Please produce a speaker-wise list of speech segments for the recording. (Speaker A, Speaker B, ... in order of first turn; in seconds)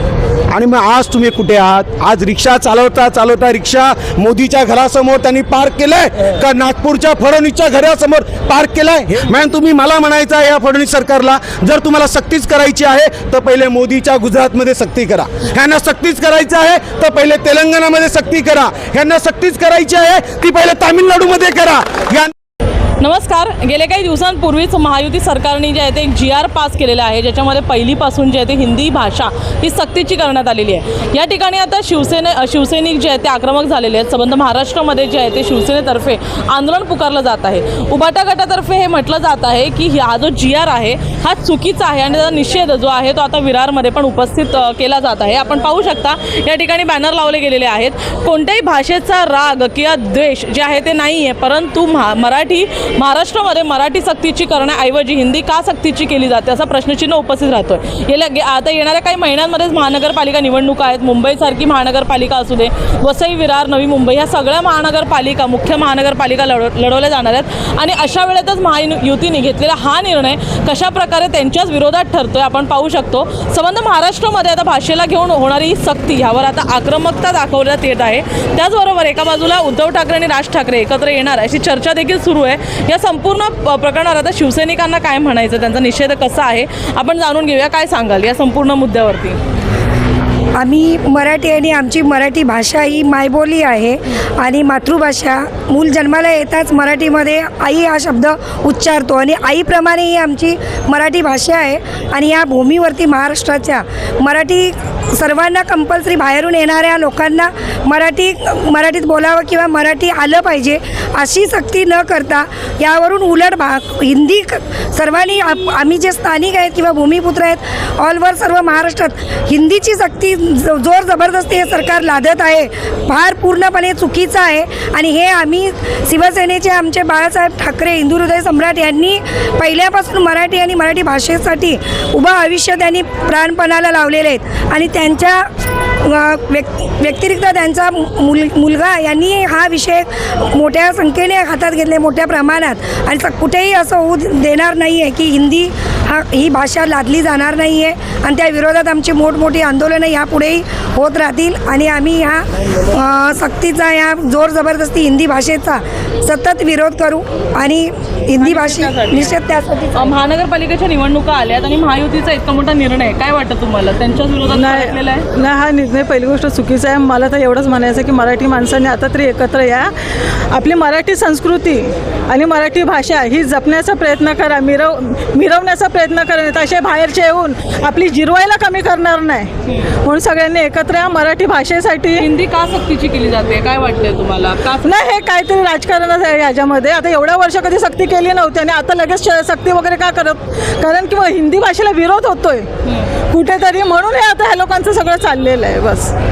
Speaker A: 0.5-22.3
Speaker B: 23.0-89.4, 158.4-159.4, 159.9-165.2, 182.2-184.9, 192.8-193.1
Speaker C: 90.6-135.4, 136.1-160.1
Speaker D: 164.5-169.9, 170.5-179.5, 180.0-182.3, 184.8-192.7, 193.3-196.1